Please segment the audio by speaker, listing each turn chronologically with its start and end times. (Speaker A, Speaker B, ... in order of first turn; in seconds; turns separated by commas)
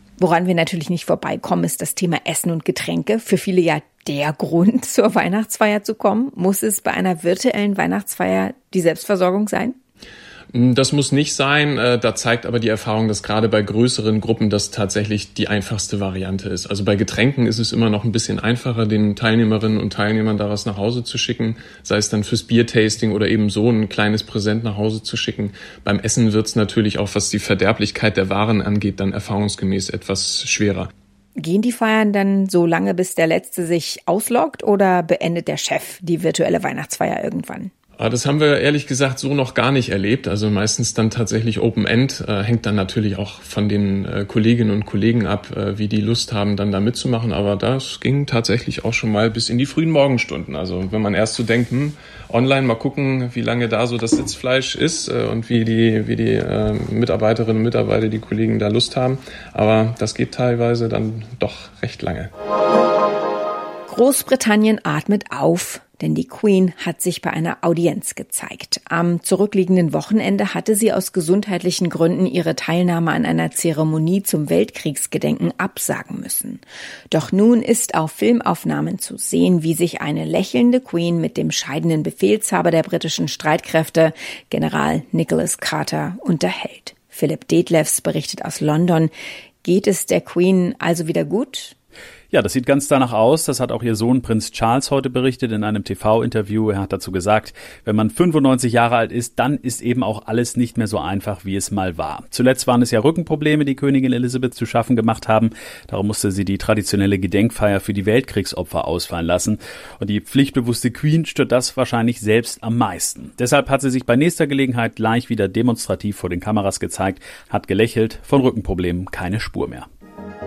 Speaker A: 0.2-9.8, Speaker B: 10.5-30.9, Speaker A: 31.4-37.7, Speaker B: 38.0-62.3, Speaker A: 63.9-89.1, Speaker A: 89.6-91.8, Speaker C: 92.3-119.9